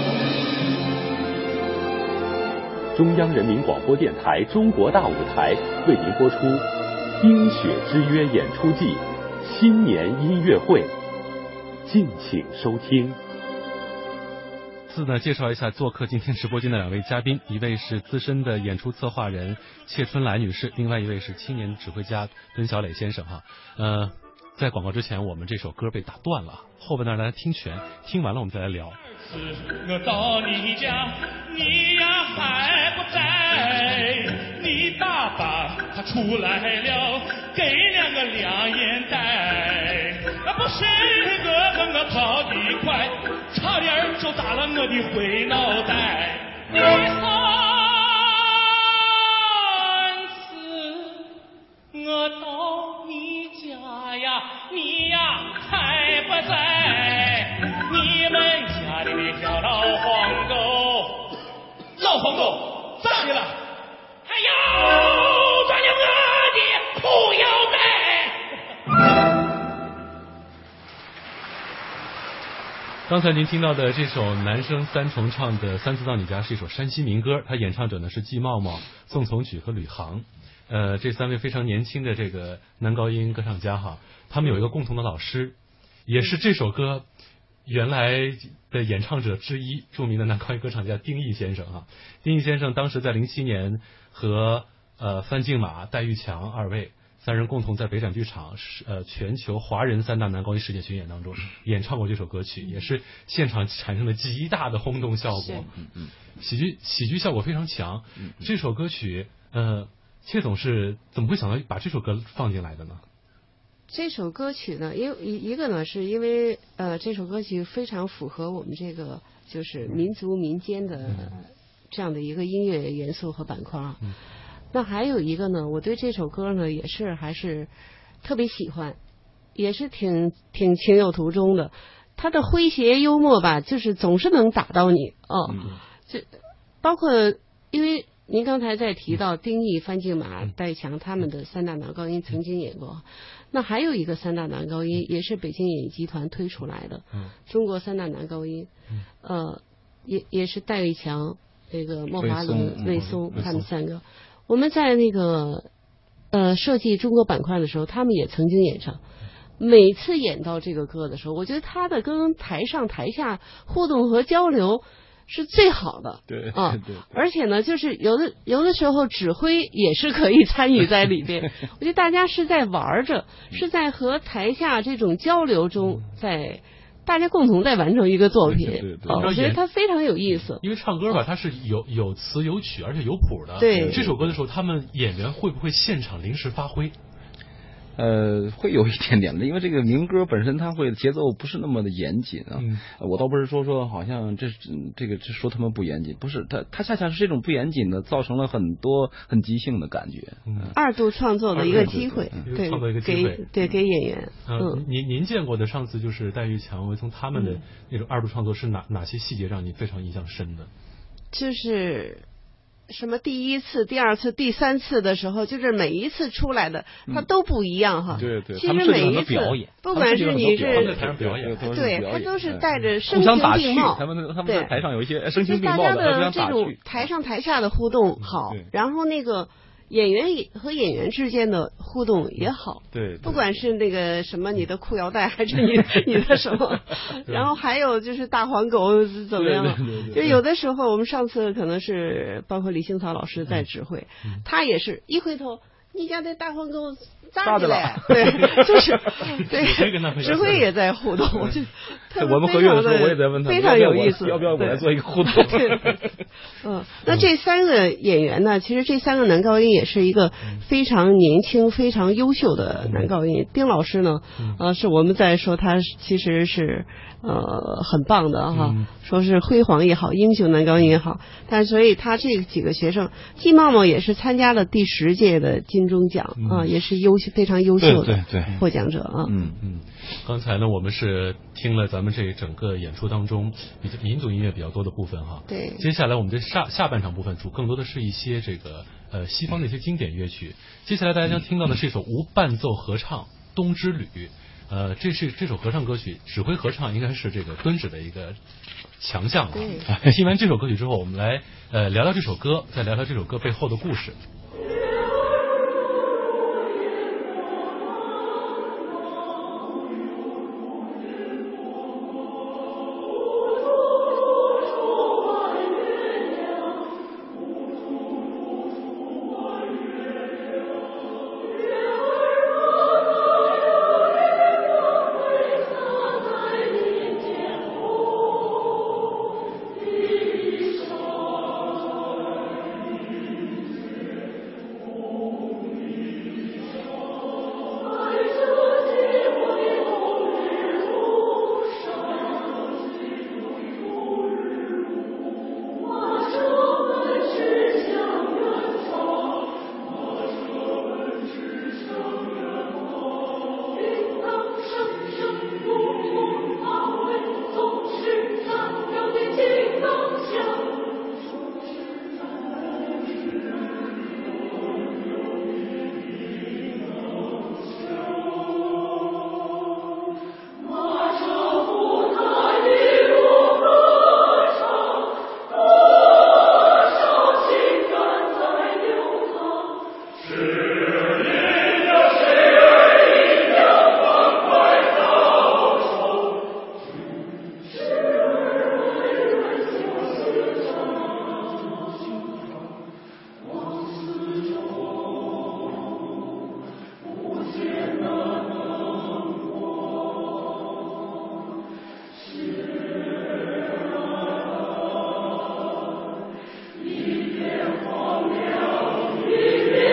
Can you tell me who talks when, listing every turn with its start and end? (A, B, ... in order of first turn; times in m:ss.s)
0:02.9-0:06.7 A
0:07.2-0:10.9 A
0:11.8-0:13.2 A
0:14.9-0:29.0 B
0:29.2-0:51.3 C
0:51.9-1:01.3 C
1:02.0-1:03.6 C
1:04.3-1:08.2 C
1:13.1-1:25.6 B
1:26.1-1:27.0 B
1:27.6-1:45.7 B
1:45.4-1:45.6 D
1:45.8-1:46.1 E
1:46.4-1:53.0 B
1:53.9-2:04.0 D
2:01.1-2:01.3 B
2:04.7-2:07.7 D
2:08.2-2:09.0 D
2:09.5-2:16.3 D
2:15.5-2:15.7 E
2:16.8-2:28.7 D
2:29.2-2:35.7 D
2:32.2-2:33.6 E
2:33.0-2:33.6 B
2:36.3-2:39.0 D
2:39.6-3:00.6 D
2:46.3-2:47.1 E
2:58.4-2:59.3 E
2:59.1-2:59.6 B
3:00.6-3:07.0 B
3:03.6-3:04.0 D
3:03.7-3:04.4 E
3:08.0-3:20.8 E
3:12.6-3:12.8 B
3:20.4-3:20.7 B
3:20.7-3:24.8 D
3:21.5-3:23.4 B
3:21.6-3:22.4 E
3:24.4-3:30.7 B
3:31.3-3:32.2 D
3:32.9-3:41.1 D
3:38.2-3:47.1 E
3:40.4-3:41.7 B
3:41.6-3:44.7 D
3:45.4-4:16.0 D
3:48.4-3:48.7 E
3:52.9-3:53.6 E
3:59.4-4:00.4 E
4:07.4-4:08.8 E
4:09.2-4:10.7 B
4:10.3-4:10.5 E
4:12.1-4:16.1 E
4:16.6-4:39.3 D
4:28.5-4:28.9 B
4:36.4-4:36.7 B
4:37.8-4:38.5 E
4:39.2-4:39.6 E
4:39.6-4:58.4 B
4:45.5-4:45.8 D
4:59.0-5:04.2 B
4:59.5-4:59.9 D
4:59.9-5:00.1 E